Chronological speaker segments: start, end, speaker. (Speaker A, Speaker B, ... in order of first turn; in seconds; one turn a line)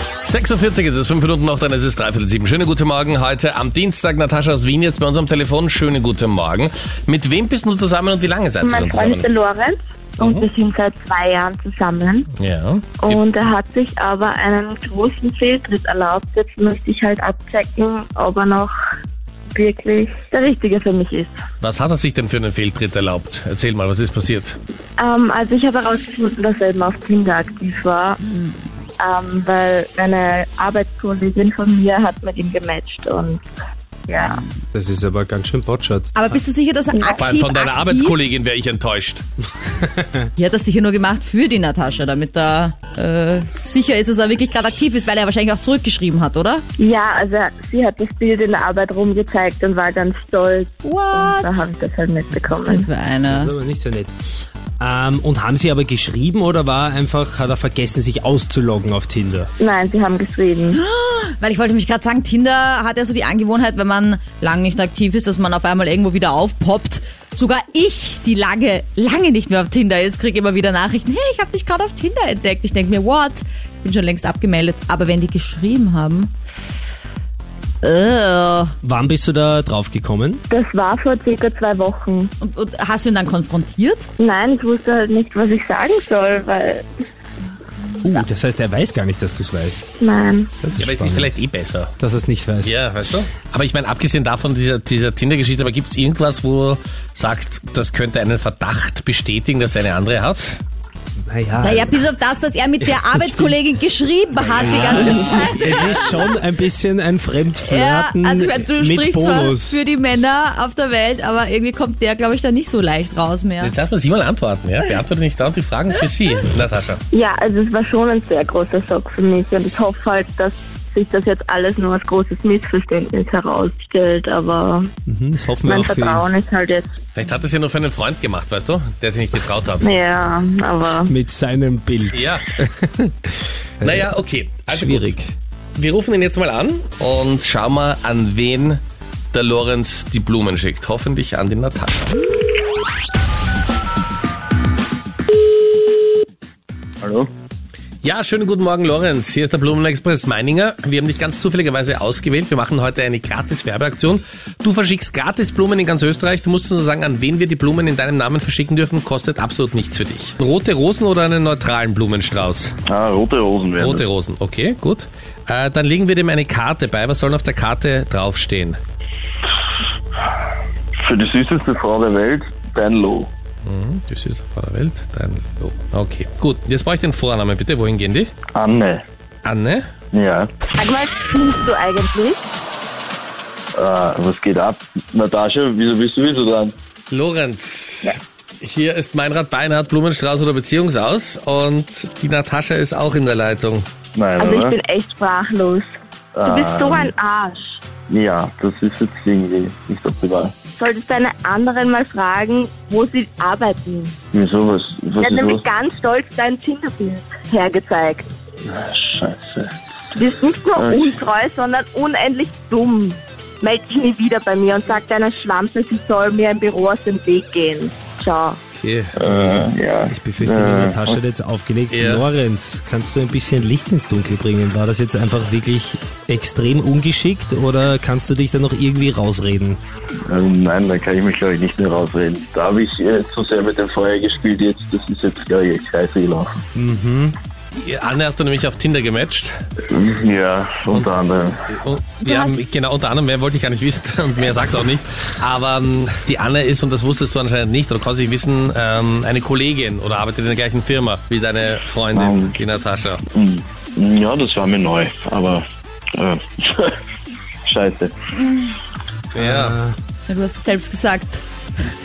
Speaker A: 0.2-9.3
Speaker B: 8.6-12.3
Speaker A: 10.2-10.5
Speaker A: 12.4-13.2
Speaker B: 13.0-18.7
Speaker B: 19.5-21.4
Speaker A: 21.6-24.6
Speaker B: 25.0-28.2
Speaker B: 29.0-33.4
Speaker B: 34.1-34.4
Speaker C: 34.7-36.4
Speaker D: 36.1-38.2
Speaker A: 37.1-39.2
Speaker C: 40.0-40.2
Speaker D: 40.4-46.6
Speaker B: 46.8-52.9
Speaker D: 50.8-51.6
Speaker D: 52.4-53.5
Speaker C: 53.3-54.2
Speaker C: 54.8-59.5
Speaker B: 59.6-60.8
Speaker D: 60.7-76.3
Speaker D: 77.8-78.7
Speaker C: 78.8-80.4
Speaker B: 80.5-82.3
Speaker D: 82.4-84.1
Speaker B: 84.2-86.9
Speaker C: 88.0-89.9
Speaker B: 90.0-90.5
Speaker C: 90.6-91.4
Speaker A: 90.8-91.9
Speaker C: 92.0-92.8
Speaker A: 92.6-100.6
Speaker C: 101.3-102.1
Speaker D: 101.6-106.3
Speaker C: 102.8-103.6
Speaker C: 104.5-109.8
Speaker A: 104.5-106.0
Speaker D: 107.6-113.7
Speaker A: 113.6-117.0
Speaker B: 117.1-124.9
Speaker C: 125.1-126.3
Speaker B: 125.7-126.9
Speaker A: 127.2-130.0
Speaker B: 129.8-131.1
Speaker C: 131.1-134.1
Speaker A: 132.1-132.5
Speaker A: 133.8-135.1
Speaker C: 134.7-135.3
Speaker A: 135.8-138.8
Speaker A: 139.3-142.2
Speaker E: 147.0-147.3
Speaker A: 148.0-162.8
Speaker E: 162.9-164.1
Speaker A: 163.8-168.8
Speaker E: 171.0-173.3
Speaker A: 173.7-178.3
Speaker E: 178.5-179.0
Speaker A: 179.4-179.9
Speaker E: 180.1-180.5
Speaker B: 180.8-182.4
Speaker E: 183.8-186.8
Speaker A: 187.1-193.9
Speaker E: 194.2-194.8
Speaker B: 194.4-195.9
Speaker E: 196.3-197.1
Speaker B: 196.4-197.8
Speaker E: 198.1-200.6
Speaker B: 200.8-204.2
Speaker E: 204.3-205.6
Speaker B: 205.2-208.3
Speaker E: 208.6-209.8
Speaker B: 210.2-218.6
Speaker E: 210.8-211.2
Speaker A: 218.8-219.7
Speaker E: 219.2-221.2
Speaker C: 220.1-229.8
Speaker A: 221.9-222.2
Speaker E: 230.3-236.6
Speaker C: 236.8-237.4
Speaker A: 237.7-239.6
Speaker E: 239.9-241.7
Speaker A: 241.7-253.2
Speaker D: 242.2-242.6
Speaker E: 252.1-252.6
Speaker E: 253.3-255.7
Speaker E: 256.2-257.0
Speaker E: 257.7-258.1
Speaker A: 259.3-259.8
Speaker C: 259.4-260.0
Speaker D: 260.3-261.4